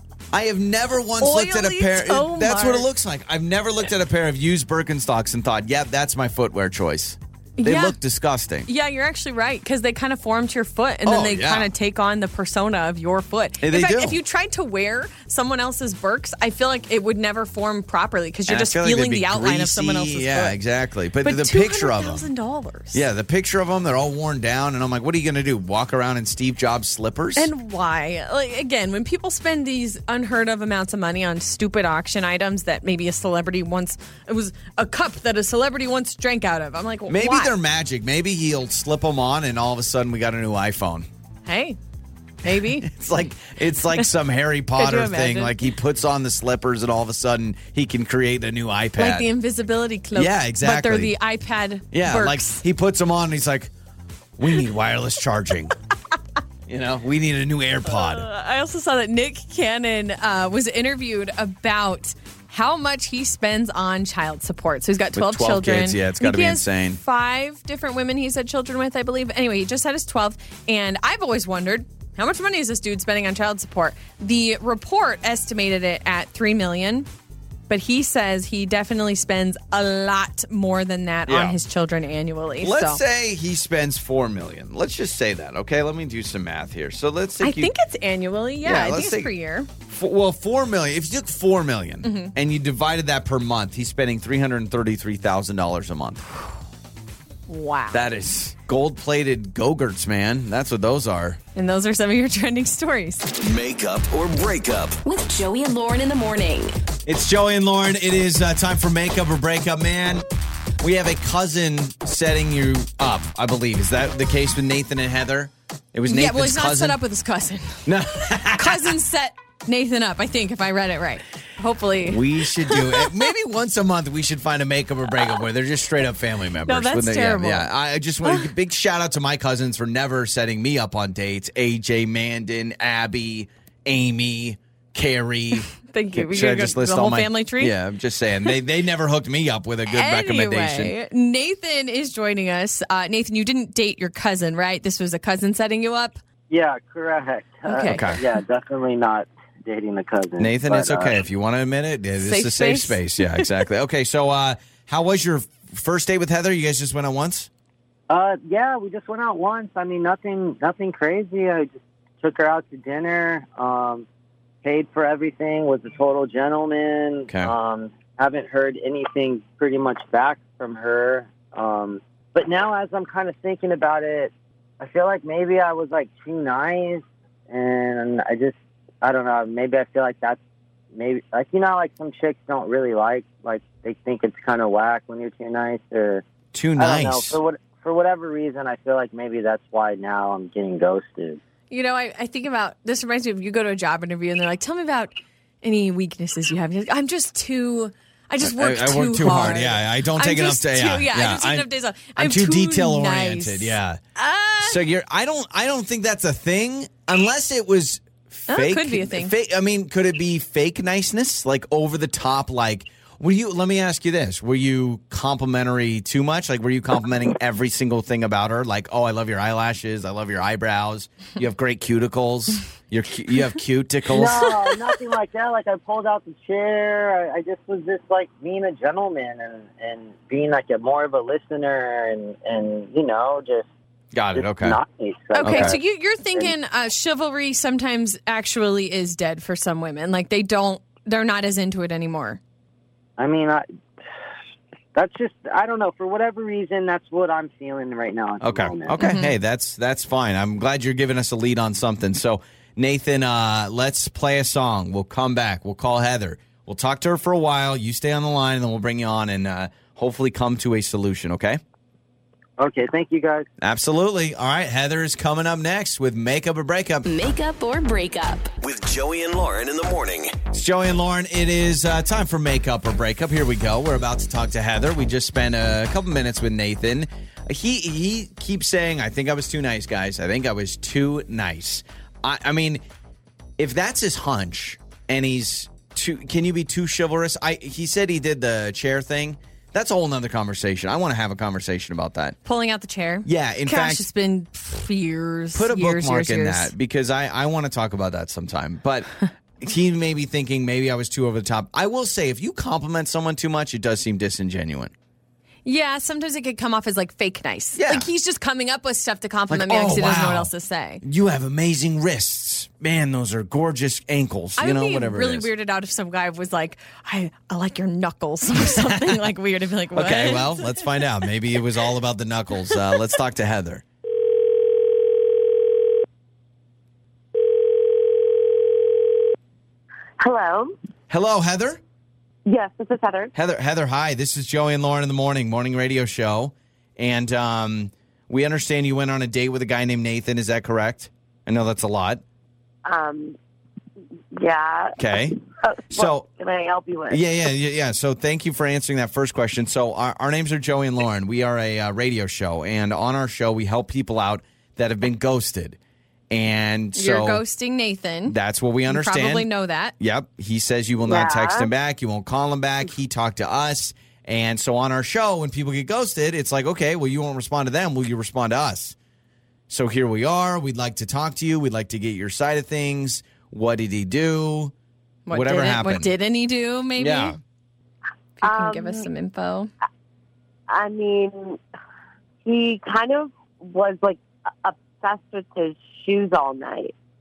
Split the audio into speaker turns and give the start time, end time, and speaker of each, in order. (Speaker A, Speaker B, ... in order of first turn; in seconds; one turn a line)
Speaker A: 0.3-8.7
Speaker B: 1.2-2.9
Speaker B: 7.6-8.0
Speaker B: 8.7-20.6
Speaker A: 11.0-11.7
Speaker A: 13.6-14.2
Speaker A: 18.5-22.2
Speaker B: 21.2-23.0
Speaker A: 22.9-27.5
Speaker B: 27.4-37.5
Speaker A: 37.1-41.1
Speaker B: 41.5-41.8
Speaker B: 42.4-42.9
Speaker A: 42.4-49.3
Speaker B: 43.8-44.1
Speaker B: 44.8-45.6
Speaker B: 49.0-52.6
Speaker A: 50.1-51.1
Speaker A: 51.9-53.7
Speaker A: 54.4-55.7
Speaker A: 56.7-58.2
Speaker B: 57.9-77.1
Speaker A: 65.1-67.0
Speaker B: 77.7-83.0
Speaker A: 81.3-81.6
Speaker A: 82.6-87.7
Speaker B: 87.4-89.7
Speaker A: 88.6-89.3
Speaker A: 89.9-96.2
Speaker B: 92.0-92.3
Speaker B: 97.5-98.0
Speaker A: 97.9-101.4
Speaker B: 101.5-103.3
Speaker C: 103.4-105.0
Speaker D: 105.0-106.8
Speaker A: 107.0-110.2
Speaker A: 110.8-117.0
Speaker B: 116.0-123.1
Speaker A: 117.8-118.9
Speaker A: 122.0-140.9
Speaker B: 126.7-127.7
Speaker B: 128.2-128.5
Speaker B: 135.8-137.8
Speaker B: 139.9-146.2
Speaker E: 146.5-151.1
Speaker B: 147.7-148.1
Speaker A: 147.9-148.2
Speaker A: 150.4-157.5
Speaker B: 152.2-153.4
Speaker E: 158.1-164.1
Speaker E: 164.6-180.4
Speaker A: 167.3-167.5
Speaker E: 180.9-186.2
Speaker A: 186.5-187.4
Speaker E: 186.8-191.4
Speaker B: 191.7-195.1
Speaker B: 195.6-204.8
Speaker A: 198.4-204.0
Speaker A: 204.6-224.6
Speaker B: 208.5-209.3
Speaker E: 224.1-233.7
Speaker A: 234.1-234.8
Speaker E: 234.3-235.8
Speaker B: 235.3-242.4
Speaker A: 235.4-235.8
Speaker E: 243.2-243.7
Speaker E: 244.9-249.0
Speaker A: 248.4-261.6
Speaker B: 249.0-249.3
Speaker E: 262.6-263.5
Speaker A: 263.6-267.1
Speaker D: 267.0-268.5
Speaker C: 268.6-270.4
Speaker A: 270.5-282.8
Speaker A: 283.6-292.4
Speaker B: 292.4-296.7
Speaker A: 293.2-294.1
Speaker A: 295.5-304.9
Speaker B: 305.6-311.0
Speaker A: 307.7-308.1
Speaker A: 309.5-310.5
Speaker A: 311.0-315.5
Speaker B: 314.6-320.9
Speaker A: 318.6-319.1
Speaker A: 319.9-323.8
Speaker F: 330.2-330.7
Speaker A: 331.1-331.8
Speaker F: 332.4-333.3
Speaker A: 333.3-342.2
Speaker F: 342.9-343.4
Speaker F: 344.3-347.2
Speaker A: 345.0-345.4
Speaker A: 345.9-346.2
Speaker A: 347.1-355.8
Speaker A: 356.3-357.4
Speaker B: 356.9-358.4
Speaker A: 358.3-359.5
Speaker B: 358.9-359.9
Speaker A: 360.0-368.9
Speaker F: 361.0-361.7
Speaker A: 369.7-374.7
Speaker B: 375.2-377.4
Speaker A: 375.3-376.1
Speaker A: 377.0-377.4
Speaker B: 378.4-379.7
Speaker F: 378.4-379.1
Speaker F: 380.7-381.6
Speaker F: 382.4-386.9